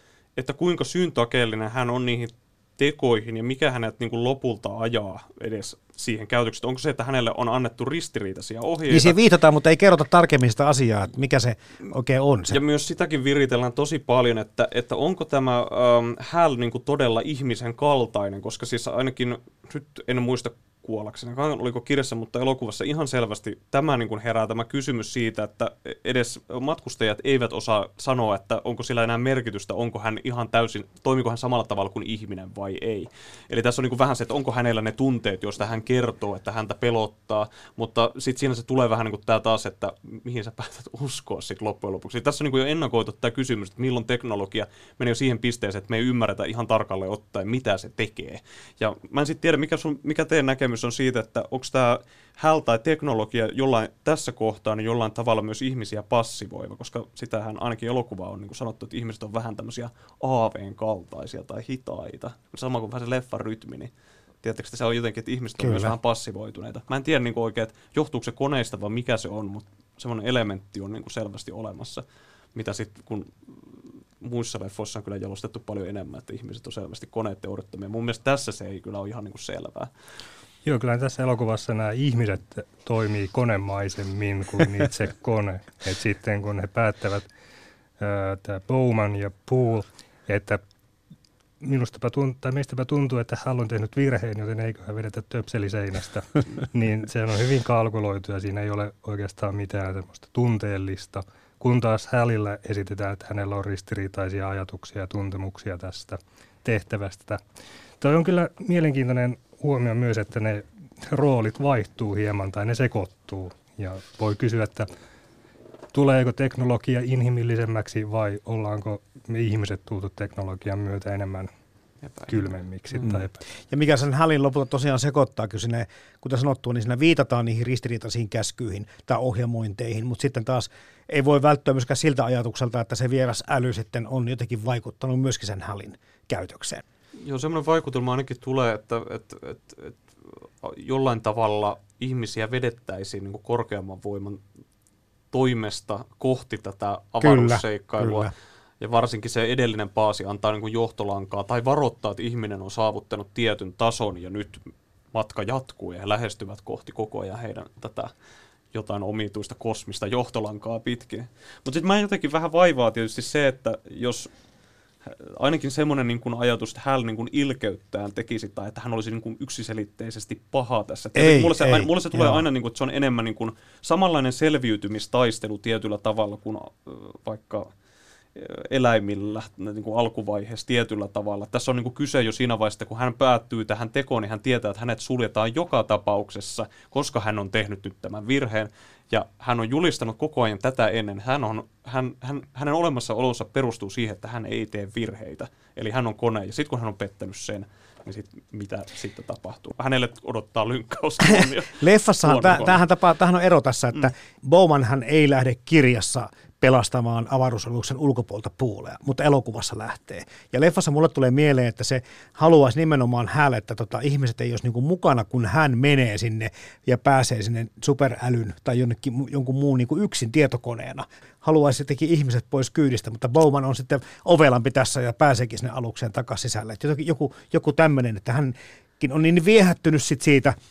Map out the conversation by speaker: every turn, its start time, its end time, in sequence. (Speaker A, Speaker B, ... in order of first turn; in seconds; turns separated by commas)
Speaker A: 0.4-9.2, Speaker B: 8.9-12.6, Speaker A: 12.5-63.9, Speaker A: 64.4-72.0, Speaker B: 65.6-65.9, Speaker A: 72.5-79.9, Speaker C: 80.6-87.3, Speaker C: 88.0-90.6, Speaker C: 91.6-107.4, Speaker C: 108.0-114.9, Speaker C: 115.9-121.5, Speaker A: 122.0-122.4, Speaker C: 122.3-123.4, Speaker B: 123.0-136.8, Speaker A: 137.2-144.4, Speaker A: 145.3-154.6, Speaker B: 147.2-148.3, Speaker A: 155.1-158.1, Speaker A: 158.7-164.3, Speaker A: 165.0-177.7, Speaker B: 171.1-172.4, Speaker A: 178.3-202.8, Speaker B: 201.2-230.6